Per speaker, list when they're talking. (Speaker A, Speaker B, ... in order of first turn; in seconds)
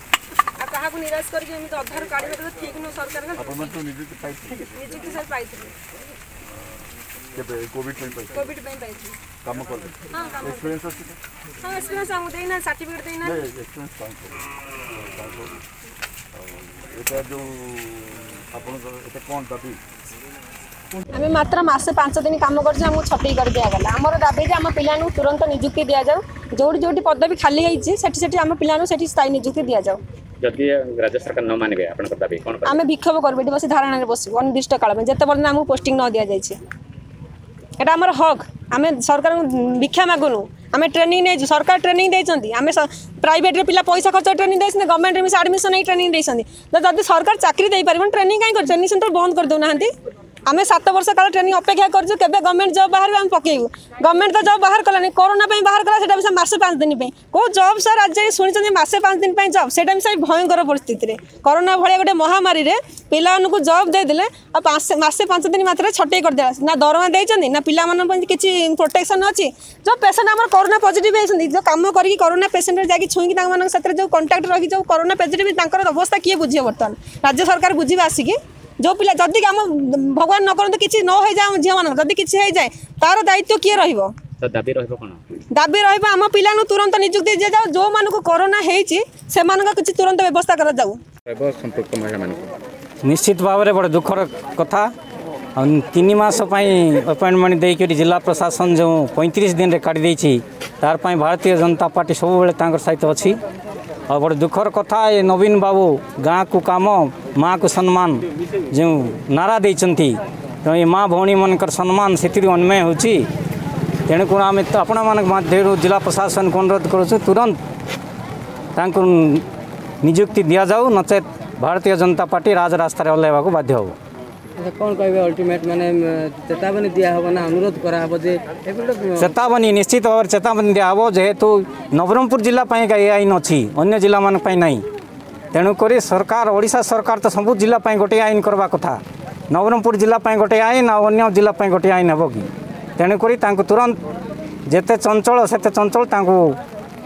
Speaker A: 0.5-3.7, 4.7-5.7, 8.3-9.2, 10.1-10.7, 11.6-13.4, 21.1-30.0, 32.6-36.6, 37.8-49.9, 50.5-84.1, 85.5-91.0
Speaker B: 3.4-4.5, 7.3-8.3, 9.4-11.2, 13.2-15.6, 16.3-19.8
Speaker C: 30.4-32.8, 84.4-85.2, 91.3-92.5
Speaker D: 93.0-94.9, 95.5-103.4, 104.1-113.2, 114.1-117.6, 118.8-119.4, 120.0-124.0, 129.2-134.8, 135.5-139.0, 139.5-144.0, 144.7-146.6
Speaker E: 124.6-129.3